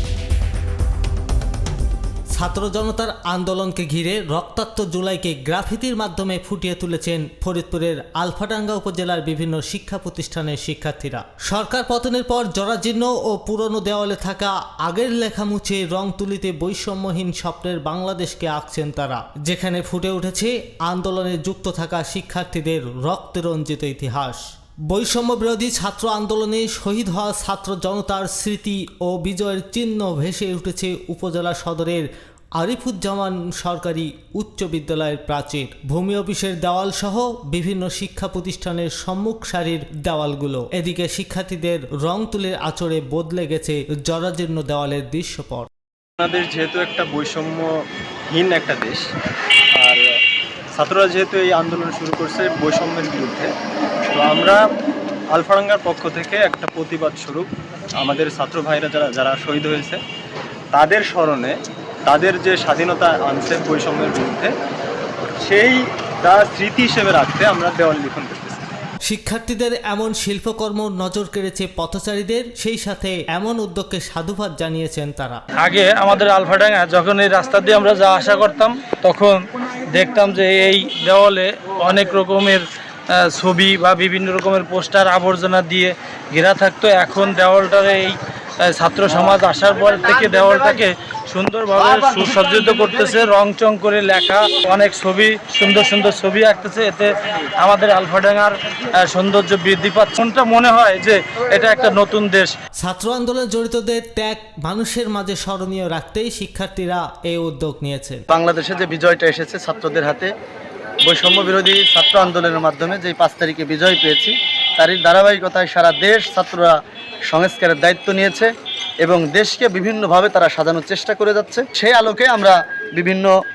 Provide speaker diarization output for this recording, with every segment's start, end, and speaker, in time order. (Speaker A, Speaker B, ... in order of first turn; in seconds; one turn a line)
Speaker A: 2.3-45.7
Speaker B: 46.2-47.7
Speaker B: 48.3-49.0
Speaker B: 49.7-50.0
Speaker B: 50.7-53.5
Speaker B: 54.1-54.6
Speaker B: 55.3-57.5
Speaker B: 58.0-60.0
Speaker B: 60.7-64.5
Speaker B: 65.4-68.6
Speaker A: 69.0-75.4
Speaker C: 75.6-102.5
Speaker A: 102.8-108.2
Speaker D: 108.3-110.3
Speaker D: 111.0-116.7
Speaker D: 117.3-118.5
Speaker D: 119.0-123.3